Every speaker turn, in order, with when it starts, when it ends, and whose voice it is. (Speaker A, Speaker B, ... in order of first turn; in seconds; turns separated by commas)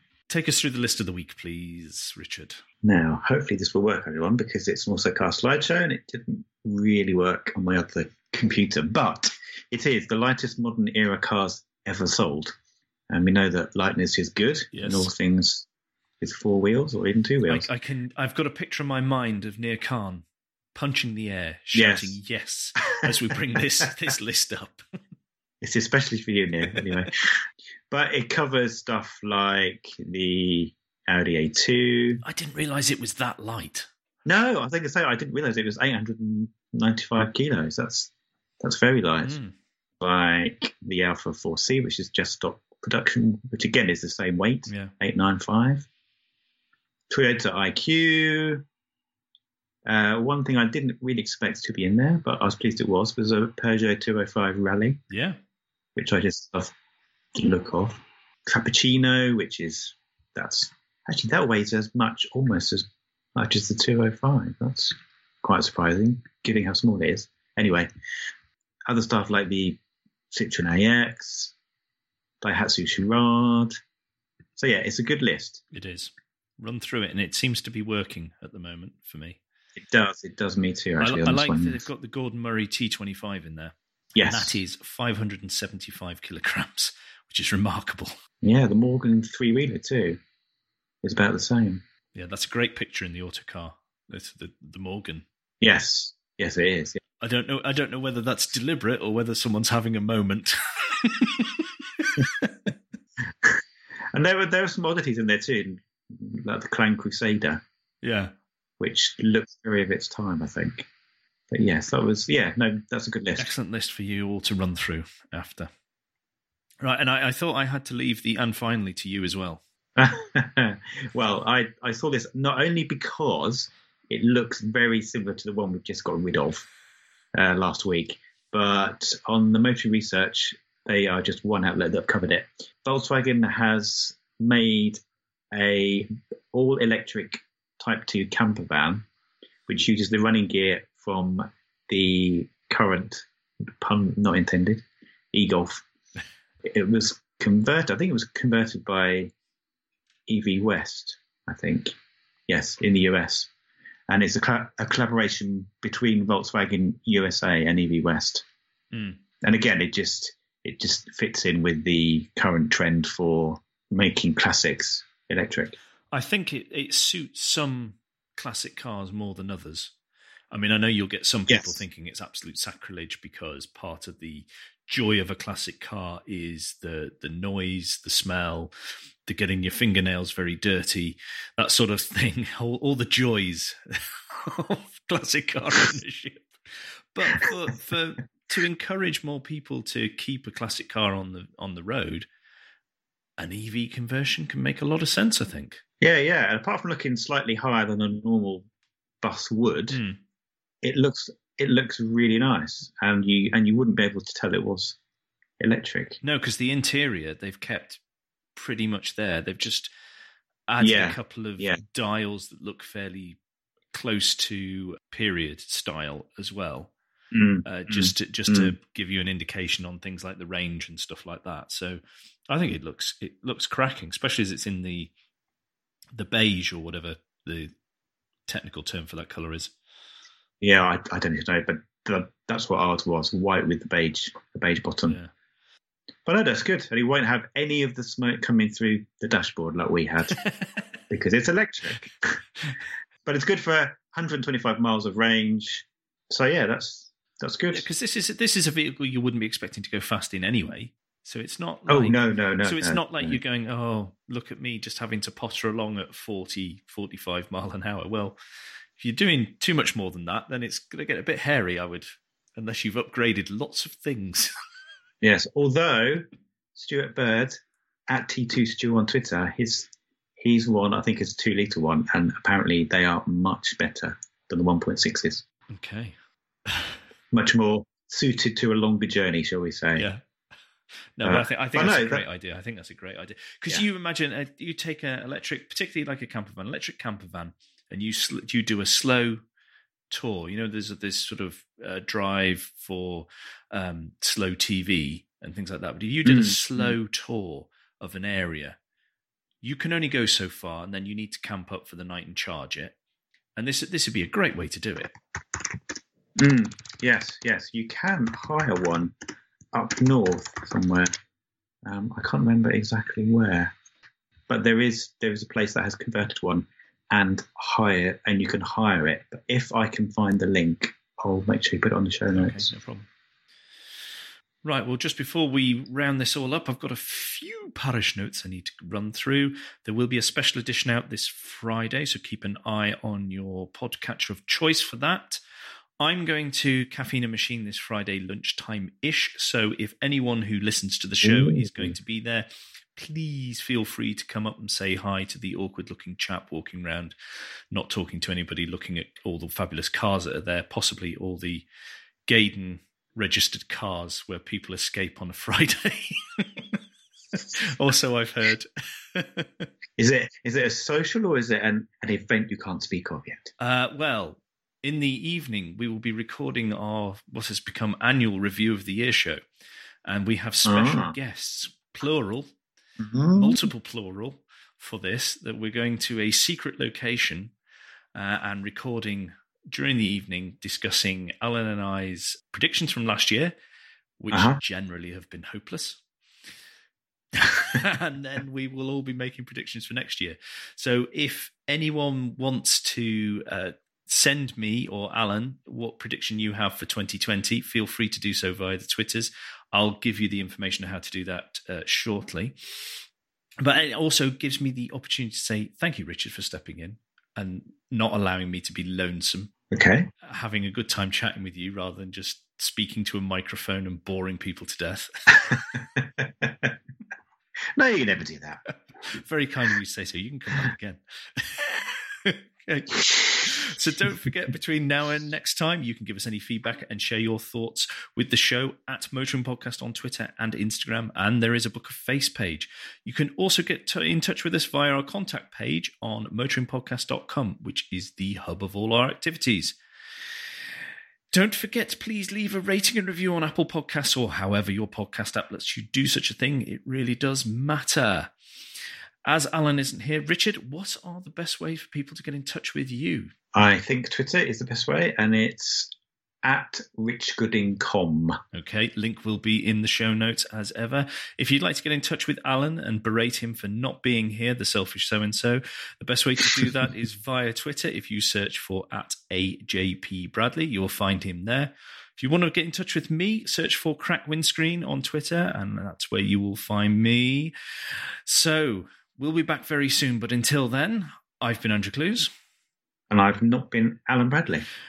Speaker A: 0.3-2.6, Speaker B: 2.8-12.5, Speaker B: 13.1-15.7, Speaker A: 14.7-15.1, Speaker B: 16.2-17.7, Speaker A: 17.5-24.8, Speaker B: 21.7-22.1, Speaker B: 25.6-32.2, Speaker A: 32.2-33.9, Speaker B: 34.2-39.4, Speaker A: 39.2-39.5, Speaker B: 40.0-45.9, Speaker B: 47.1-48.6, Speaker B: 49.8-55.0, Speaker A: 55.1-55.4, Speaker B: 56.0-56.7, Speaker B: 57.4-67.9, Speaker B: 68.9-69.8, Speaker B: 70.3-71.5, Speaker B: 72.4-73.7, Speaker B: 74.6-75.6, Speaker A: 75.7-79.4, Speaker B: 79.8-81.8, Speaker A: 81.0-88.1, Speaker B: 84.1-84.5, Speaker B: 88.4-90.2, Speaker B: 91.0-91.8, Speaker A: 92.1-95.2, Speaker B: 95.6-97.0, Speaker A: 97.2-102.5, Speaker B: 104.1-107.6, Speaker A: 108.0-108.3, Speaker B: 108.8-110.9, Speaker B: 111.5-113.5, Speaker A: 113.4-115.7, Speaker A: 116.8-119.6, Speaker B: 120.0-126.6, Speaker B: 127.3-139.0, Speaker B: 139.7-145.8, Speaker B: 146.6-149.3, Speaker B: 150.3-151.9, Speaker B: 152.5-153.5, Speaker B: 154.1-158.4, Speaker A: 158.9-159.2, Speaker B: 159.4-165.8, Speaker A: 166.1-169.9, Speaker A: 170.5-178.7, Speaker B: 171.5-171.8, Speaker A: 179.2-192.3, Speaker A: 193.4-195.8, Speaker B: 196.0-198.7, Speaker B: 199.2-200.0, Speaker A: 199.9-200.2, Speaker B: 200.8-205.0, Speaker B: 205.6-206.2, Speaker A: 206.2-208.0, Speaker A: 208.6-209.9, Speaker A: 210.7-213.4, Speaker B: 210.8-211.8, Speaker A: 213.9-216.9, Speaker B: 217.3-218.7, Speaker A: 217.6-225.1, Speaker A: 226.1-227.7, Speaker A: 228.5-229.7, Speaker B: 230.6-235.2, Speaker B: 236.2-240.4, Speaker A: 240.3-240.8, Speaker B: 241.1-242.4, Speaker B: 243.2-247.8, Speaker A: 247.7-258.4, Speaker B: 251.9-253.4, Speaker A: 259.0-264.5, Speaker B: 265.2-275.4, Speaker A: 275.7-276.1, Speaker A: 276.7-277.0, Speaker B: 277.3-280.1, Speaker A: 279.9-280.2, Speaker A: 281.2-289.4, Speaker B: 281.2-282.2, Speaker A: 290.1-298.8, Speaker B: 296.2-296.9, Speaker A: 299.6-302.9, Speaker A: 303.6-305.1, Speaker B: 306.4-309.1, Speaker B: 309.7-311.1, Speaker B: 311.8-313.7, Speaker B: 314.5-322.7, Speaker A: 322.3-323.1, Speaker A: 324.6-335.4, Speaker A: 336.0-347.1, Speaker B: 341.2-341.9, Speaker A: 347.7-351.6, Speaker A: 352.3-356.8, Speaker A: 357.4-359.7, Speaker B: 360.0-363.5, Speaker A: 363.6-369.4, Speaker A: 370.0-372.5, Speaker B: 370.6-371.1, Speaker B: 373.0-373.6, Speaker A: 373.3-377.5, Speaker A: 378.1-383.5, Speaker A: 384.2-386.0, Speaker B: 384.3-384.6, Speaker A: 387.3-403.0, Speaker A: 403.6-409.5, Speaker B: 409.7-410.1, Speaker A: 410.2-415.6, Speaker B: 415.5-416.7, Speaker B: 417.8-418.6, Speaker A: 419.0-439.8, Speaker A: 441.3-448.3, Speaker A: 449.2-453.3, Speaker B: 453.5-455.9, Speaker B: 456.4-458.4, Speaker A: 458.5-477.5, Speaker A: 478.2-482.3, Speaker B: 483.1-484.7